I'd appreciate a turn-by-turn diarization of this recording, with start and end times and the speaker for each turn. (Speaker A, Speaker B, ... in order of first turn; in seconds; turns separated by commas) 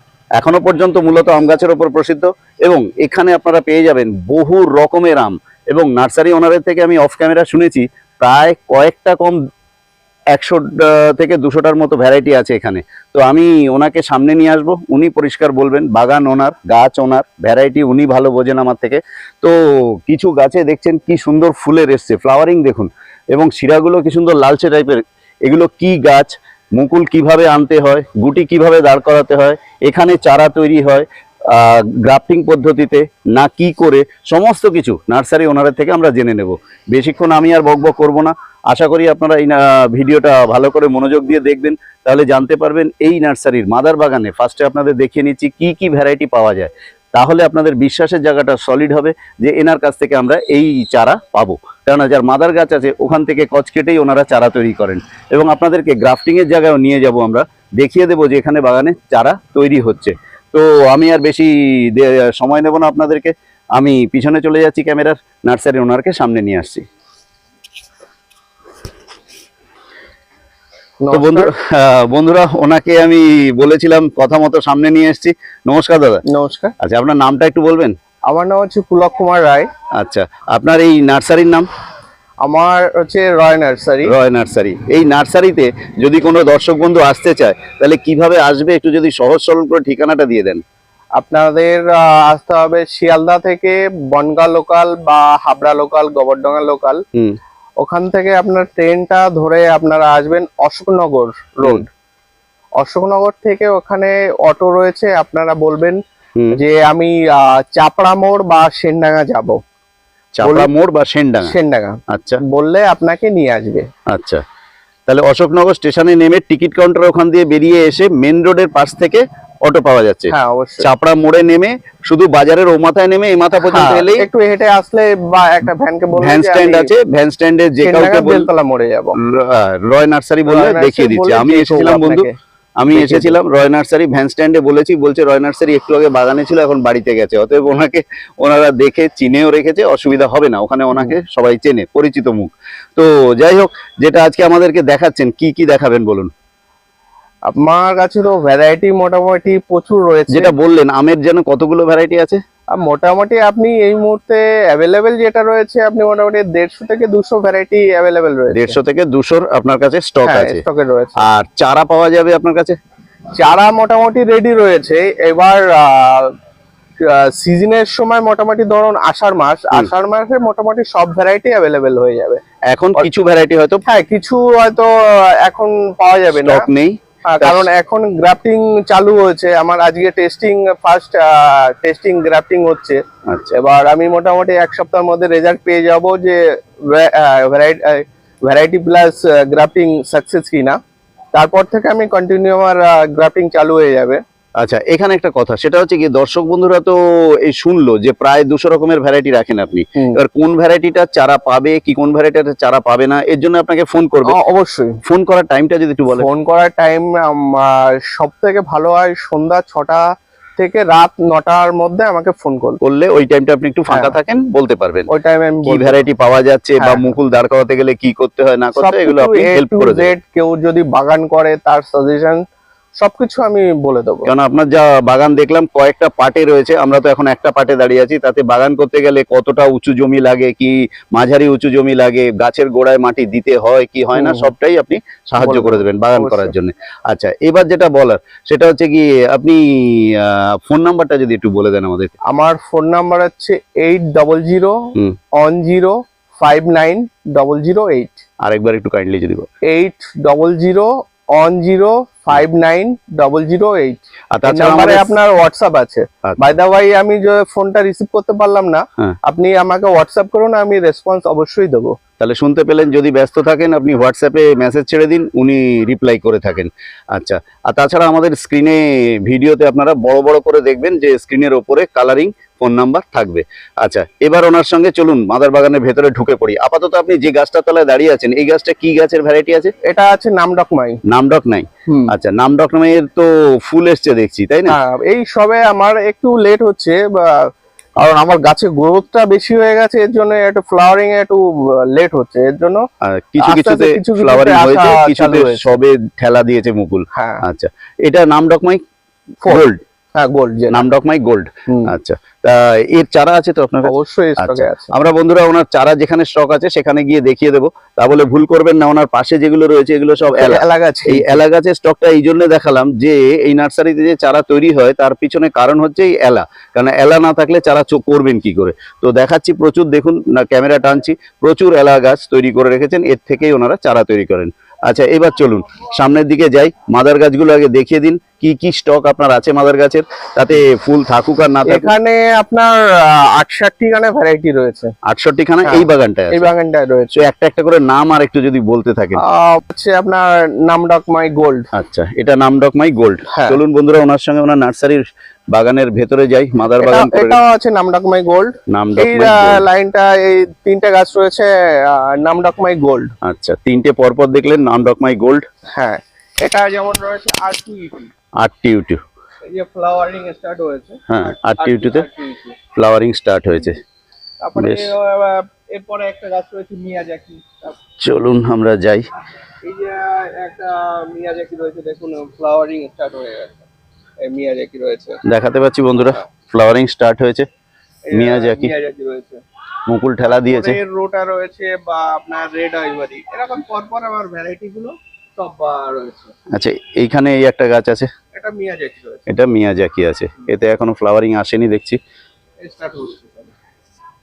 Speaker A: 0.4-9.4, Speaker A: 10.3-66.9, Speaker B: 71.0-71.5, Speaker A: 71.1-76.2, Speaker B: 76.3-76.7, Speaker A: 76.8-78.0, Speaker B: 78.3-79.7, Speaker A: 80.0-81.7, Speaker B: 82.4-84.1, Speaker A: 84.0-90.6, Speaker B: 91.2-97.0, Speaker B: 97.8-101.9, Speaker B: 102.8-106.0, Speaker B: 106.5-109.6, Speaker A: 110.4-111.6, Speaker B: 110.4-110.7, Speaker B: 111.4-113.9, Speaker A: 112.1-112.4, Speaker A: 114.1-114.4, Speaker A: 115.1-124.3, Speaker B: 120.3-120.9, Speaker B: 123.7-126.9, Speaker A: 126.2-128.5, Speaker B: 127.8-129.2, Speaker A: 129.2-132.3, Speaker B: 130.5-132.3, Speaker A: 132.8-146.3, Speaker B: 132.9-133.4, Speaker B: 147.5-150.5, Speaker A: 150.3-152.4, Speaker B: 152.7-158.8, Speaker A: 158.5-160.6, Speaker B: 160.2-161.2, Speaker A: 161.2-162.8, Speaker B: 163.4-166.3, Speaker B: 167.0-172.4, Speaker A: 172.7-173.8, Speaker B: 173.9-176.7, Speaker A: 176.3-177.7, Speaker B: 177.3-183.0, Speaker A: 183.3-183.6, Speaker B: 183.5-190.8, Speaker B: 191.3-194.2, Speaker A: 194.6-204.4, Speaker B: 200.0-200.2, Speaker B: 204.2-205.0, Speaker A: 205.1-206.3, Speaker B: 206.1-210.0, Speaker B: 210.6-212.8, Speaker A: 212.8-215.1, Speaker B: 215.1-216.0, Speaker A: 215.6-220.1, Speaker B: 216.8-217.1, Speaker B: 218.8-222.4, Speaker B: 223.0-224.3, Speaker A: 224.3-242.1, Speaker B: 234.2-234.5, Speaker B: 235.4-236.5, Speaker B: 242.3-248.2, Speaker A: 248.4-249.5, Speaker B: 249.7-262.0, Speaker A: 254.3-255.1, Speaker A: 256.2-256.5, Speaker A: 262.2-279.7, Speaker B: 279.8-281.0, Speaker A: 281.1-284.8, Speaker B: 281.9-282.1, Speaker B: 284.7-292.8, Speaker A: 293.0-298.8, Speaker B: 293.4-295.8, Speaker B: 297.1-297.4, Speaker A: 299.4-299.8, Speaker B: 300.1-300.9, Speaker A: 300.7-331.9, Speaker B: 301.7-301.9, Speaker B: 303.8-304.9, Speaker B: 310.3-311.4, Speaker B: 331.6-334.9, Speaker A: 335.1-336.5, Speaker B: 335.6-337.1, Speaker A: 337.1-339.2, Speaker B: 339.2-341.7, Speaker A: 341.7-347.4, Speaker B: 343.3-343.6, Speaker B: 346.8-353.1, Speaker A: 348.7-349.6, Speaker A: 353.2-355.5, Speaker B: 355.8-358.1, Speaker A: 358.4-359.0, Speaker B: 359.4-362.6, Speaker A: 361.1-362.1, Speaker A: 362.8-363.8, Speaker B: 364.4-367.8, Speaker A: 364.6-364.9, Speaker A: 368.0-369.1, Speaker B: 369.6-373.7, Speaker B: 374.2-375.2, Speaker A: 375.2-377.5, Speaker B: 378.1-379.4, Speaker A: 378.1-378.7, Speaker A: 379.9-380.8, Speaker B: 380.2-386.3, Speaker A: 386.5-388.1, Speaker B: 388.3-389.3, Speaker A: 389.3-392.0, Speaker B: 392.6-393.5